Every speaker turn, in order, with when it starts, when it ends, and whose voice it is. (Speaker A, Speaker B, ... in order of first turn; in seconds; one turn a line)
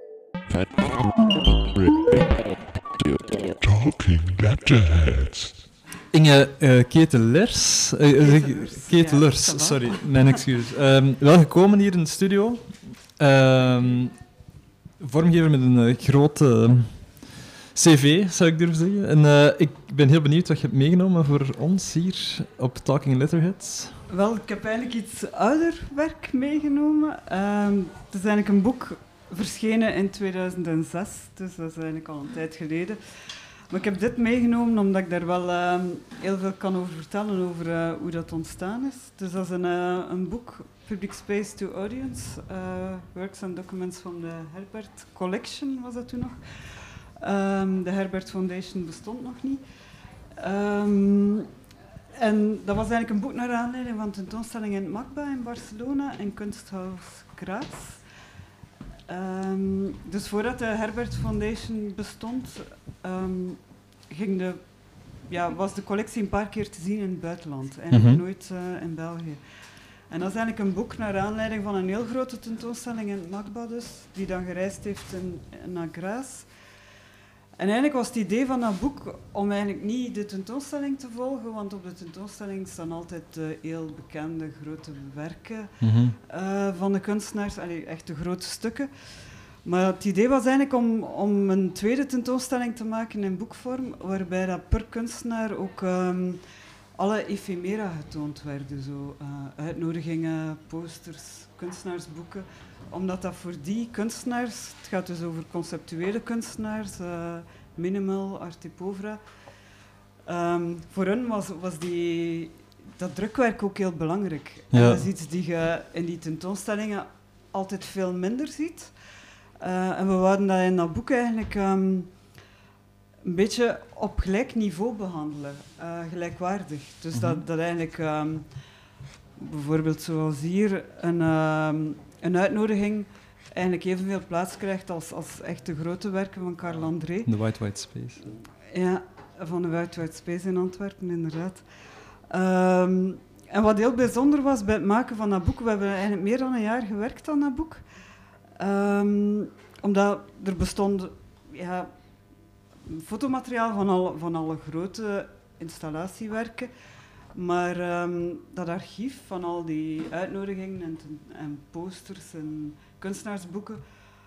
Speaker A: 3.6-5.6
Speaker B: 6.1-14.2
Speaker C: 8.2-10.4
Speaker B: 15.0-24.0
Speaker C: 24.1-49.6
Speaker C: 50.3-51.5
Speaker C: 52.1-58.0
Speaker C: 59.1-69.4
Speaker B: 67.9-68.2
Speaker C: 70.1-76.5
Speaker C: 77.6-96.4
Speaker B: 85.8-86.2
Speaker C: 96.9-109.2
Speaker C: 110.2-118.9
Speaker B: 114.7-115.0
Speaker C: 119.6-122.2
Speaker C: 123.2-128.6
Speaker B: 127.1-127.4
Speaker C: 129.3-137.3
Speaker B: 137.2-138.2
Speaker C: 138.7-141.7
Speaker C: 142.3-147.8
Speaker C: 148.5-151.9
Speaker C: 152.8-156.7
Speaker C: 157.3-163.8